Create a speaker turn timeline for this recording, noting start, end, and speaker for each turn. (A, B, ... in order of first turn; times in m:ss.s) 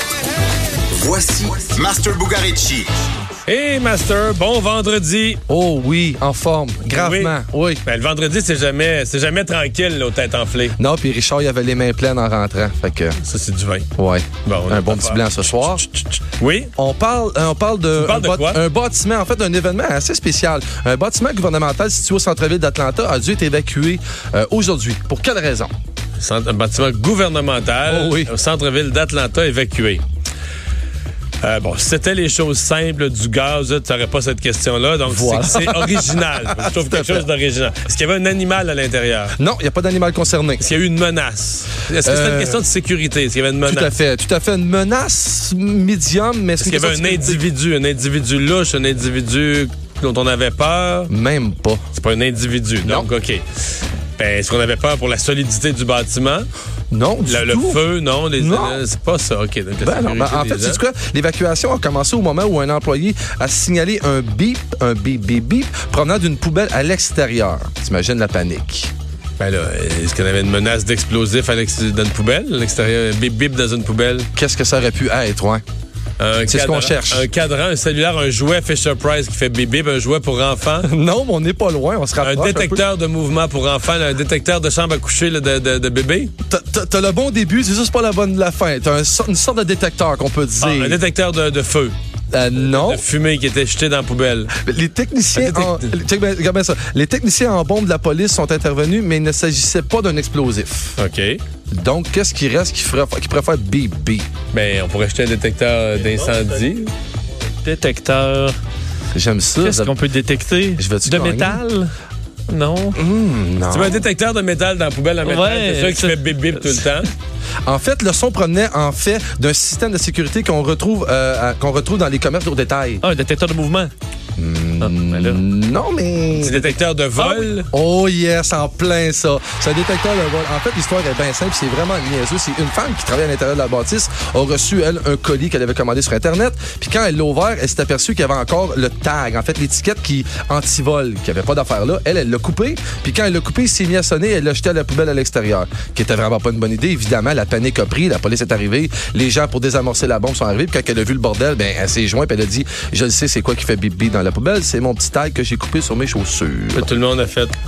0:00.9-0:02.9 A
0:03.5-0:05.4 B
0:05.5-0:07.8 C
0:06.9-0:10.8 B
0:10.8-0:13.2 C
0:13.2-0:13.9 B
0:14.0-0:15.9 C
0:14.4-0:16.7 B
0:16.8-0:25.7 C
0:18.0-0:18.6 B
0:26.2-0:30.0 B
0:27.9-0:28.3 C
0:31.4-0:39.4 B
0:35.0-0:37.3 C
0:39.4-0:40.7 C
0:40.6-0:43.9 B
0:42.0-0:42.6 C
0:43.6-0:47.4 C
0:46.6-0:51.1 B
0:51.1-0:51.8 C
0:51.9-0:53.4 B
0:54.2-0:56.5 B
0:56.9-0:57.8 C
0:57.2-1:00.8 B
0:58.4-0:58.8 C
0:59.8-1:08.9 C
1:09.4-1:14.3 B
1:14.4-1:15.6 C
1:16.2-1:20.9 B
1:16.5-1:17.3 C
1:20.8-1:22.8 C
1:22.2-1:26.3 B
1:26.4-1:31.0 C
1:30.6-1:32.0 B
1:32.3-1:33.0 C
1:32.6-1:34.5 B
1:34.6-1:41.0 C
1:35.4-1:36.0 B
1:41.0-1:41.4 B
1:41.7-1:44.3 C
1:44.5-1:46.9 B
1:47.6-1:48.6 D
1:49.1-1:50.0 C
1:49.6-1:51.9 D
1:50.8-1:51.6 C
1:52.5-1:53.0 D
1:53.0-1:54.0 C
1:53.7-1:57.1 B
1:55.2-1:57.0 D
1:57.6-2:03.0 C
2:03.0-2:03.9 D
2:04.4-2:36.9 C
2:04.8-2:05.4 D
2:06.4-2:07.7 B
2:36.8-2:37.6 B